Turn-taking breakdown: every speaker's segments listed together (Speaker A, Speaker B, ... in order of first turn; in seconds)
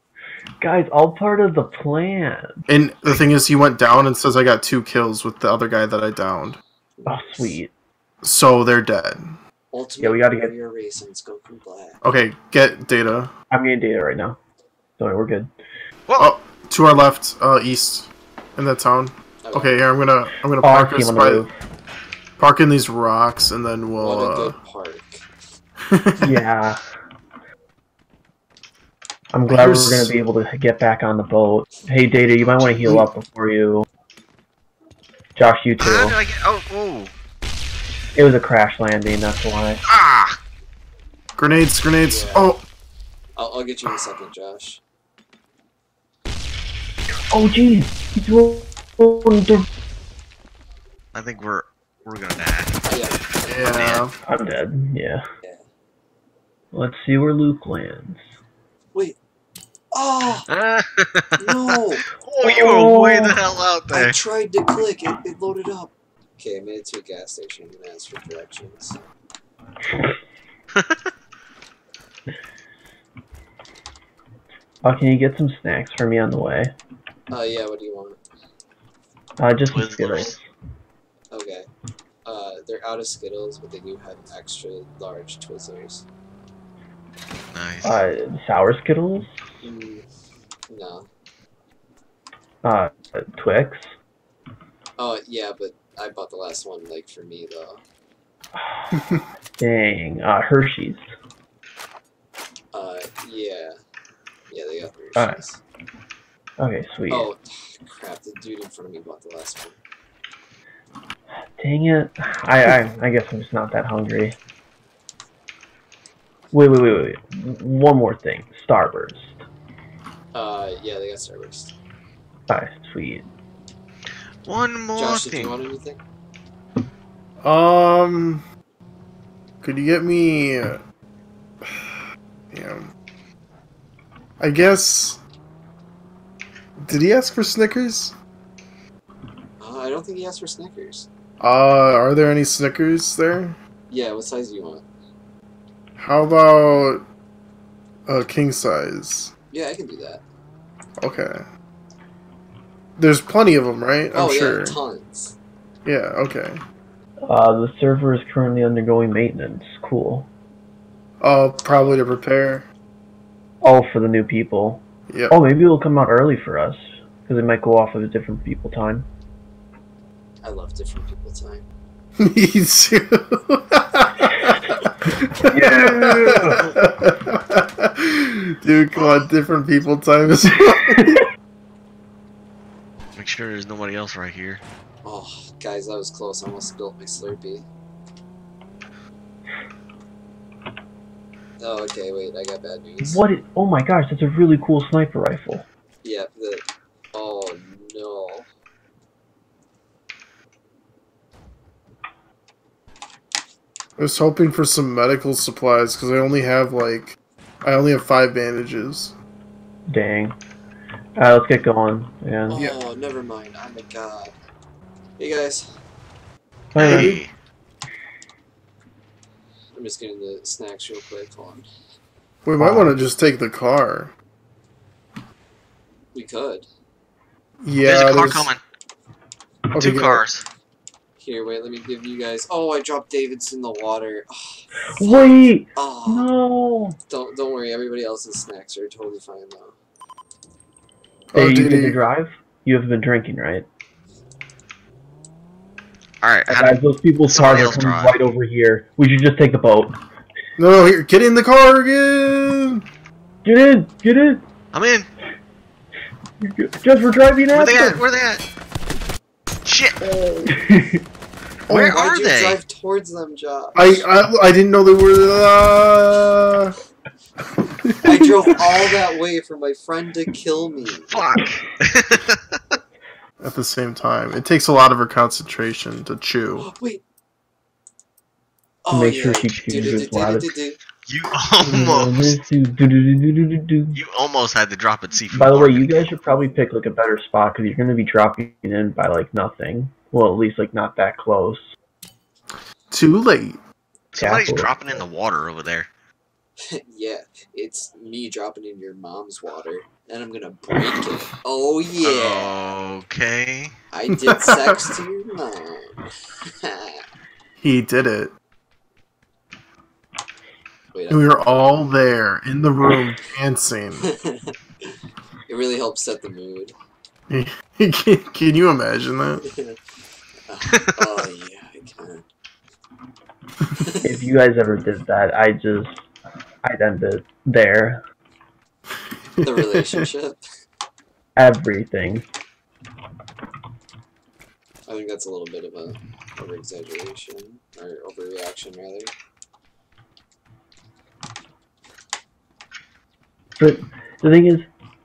Speaker A: 0.6-2.6, 7.1-7.7, 10.0-10.5, 13.5-14.4, 15.0-15.5, 20.6-21.5, 26.2-26.8, 29.3-33.8, 35.4-36.2, 38.1-39.8, 47.3-49.7, 54.2-55.2, 56.7-58.2, 62.4-63.4, 74.8-76.7, 79.4-80.5, 87.8-89.4, 92.6-93.9, 98.6-98.9, 99.6-101.1, 106.6-107.3, 111.6-114.3, 116.5-119.4, 122.5-123.2, 157.3-160.3, 163.6-169.1, 175.5-176.7, 180.7-181.2, 193.0-195.7, 209.9-210.3, 211.2-212.6, 216.7-217.2, 222.6-222.9, 235.0-237.0, 241.3-243.7, 246.5-250.0, 253.4-254.4, 256.4-258.0, 260.0-261.0, 278.9-280.5, 281.6-284.0, 285.3-291.7, 294.2-294.7, 324.0-326.0, 326.6-328.0, 331.4-332.3, 343.6-344.7
Speaker B: 2.7-6.6, 8.2-9.4, 12.0-13.3, 16.2-21.4, 22.4-24.6, 25.9-26.3, 29.5-30.2, 32.8-33.1, 41.4-42.6, 53.5-54.1, 127.4-128.4, 129.6-130.8, 131.7-132.0, 132.5-132.9, 134.4-135.2, 136.8-138.2, 141.4-143.6, 146.0-147.0, 148.1-149.3, 151.0-151.5, 153.0-154.8, 155.8-156.6, 161.2-162.7, 165.1-165.4, 172.2-181.2, 204.0-209.2, 222.5-224.1, 227.6-228.5, 229.7-230.2, 241.3-242.0, 250.6-252.8, 261.7-262.0, 263.8-266.7, 267.6-268.8, 273.4-276.7, 292.9-293.6, 304.1-304.9, 307.6-308.3, 311.1-314.1, 317.3-319.4, 329.4-330.0
Speaker C: 7.0-7.5, 9.7-12.0, 19.4-19.8, 24.0-25.2, 42.0-42.5, 43.4-44.8, 52.9-53.3, 59.9-60.5, 61.4-62.1, 63.9-69.0, 77.3-78.2, 81.3-81.7, 82.2-86.0, 89.6-90.1, 90.7-91.1, 95.0-97.8, 102.7-103.7, 104.5-105.6, 107.1-109.8, 120.3-121.7, 125.0-126.0, 139.6-141.1, 143.9-144.8, 149.5-150.2, 154.1-155.3, 161.7-162.0, 170.4-171.7, 176.4-176.7, 178.9-179.3, 185.0-187.7, 191.6-193.2, 196.0-198.5, 212.5-214.3, 215.2-215.7, 219.8-221.7, 226.1-226.7, 231.2-236.3, 237.1-239.8, 261.9-264.1, 268.0-271.2, 276.6-277.0, 278.9-280.8, 296.7-302.7, 303.9-306.1, 306.6-307.0, 310.9-311.3, 314.0-314.9, 315.5-316.7, 319.5-319.8, 320.5-322.2, 329.4-330.4, 334.9-339.1
Speaker D: 32.4-32.8, 35.8-37.1, 39.9-40.4, 51.1-52.8, 53.7-54.0, 60.5-61.4, 62.1-64.2, 70.8-71.1, 79.7-80.3, 87.5-88.0, 124.5-125.6, 183.2-184.6, 216.8-217.3, 227.8-228.6, 229.8-230.4, 246.2-246.8, 247.3-248.2, 254.7-255.1, 257.5-258.5, 259.6-260.0, 261.7-262.6, 271.1-272.8, 281.0-282.4, 283.9-286.1, 294.1-295.9, 302.0-303.7